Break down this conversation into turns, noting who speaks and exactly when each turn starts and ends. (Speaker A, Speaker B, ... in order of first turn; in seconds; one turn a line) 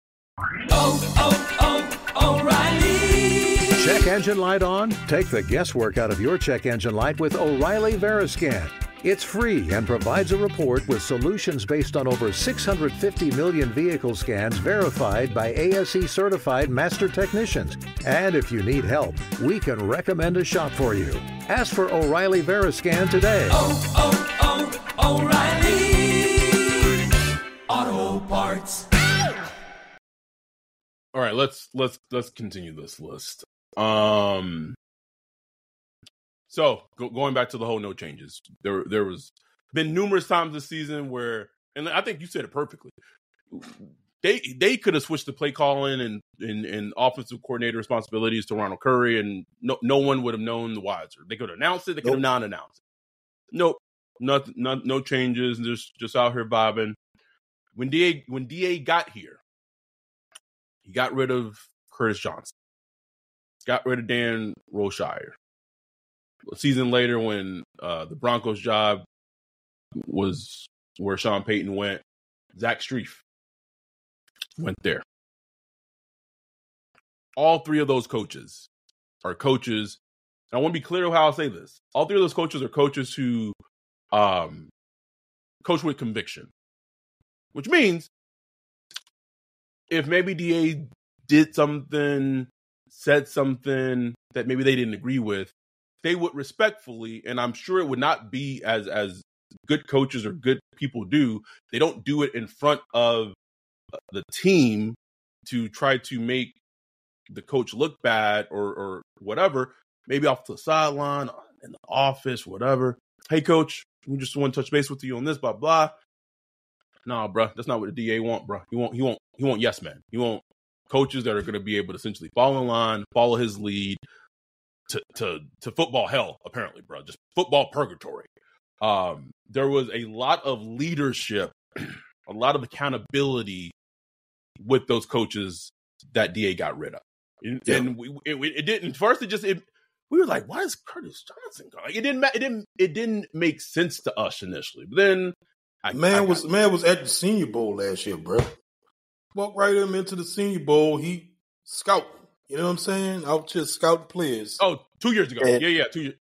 Speaker A: 0.7-4.0
Speaker B: 3.8-23.6
Speaker A: 23.5-26.9
Speaker A: 27.7-28.9
Speaker C: 31.1-34.8
Speaker C: 36.5-42.9
Speaker C: 43.5-52.8
Speaker C: 53.5-57.0
Speaker C: 57.8-59.4
Speaker C: 60.8-62.5
Speaker C: 63.7-65.3
Speaker C: 66.5-69.0
Speaker C: 70.0-72.0
Speaker C: 72.6-73.2
Speaker C: 74.6-75.0
Speaker C: 77.4-78.7
Speaker C: 79.2-80.0
Speaker C: 80.5-83.6
Speaker C: 84.1-84.7
Speaker C: 85.6-86.5
Speaker C: 87.5-88.1
Speaker C: 89.9-103.4
Speaker C: 104.0-106.6
Speaker C: 107.3-115.9
Speaker C: 117.1-124.0
Speaker C: 124.9-128.3
Speaker C: 128.8-133.7
Speaker C: 134.6-146.4
Speaker D: 145.9-148.5
Speaker D: 149.3-154.6
Speaker C: 154.6-156.2
Speaker D: 155.4-155.7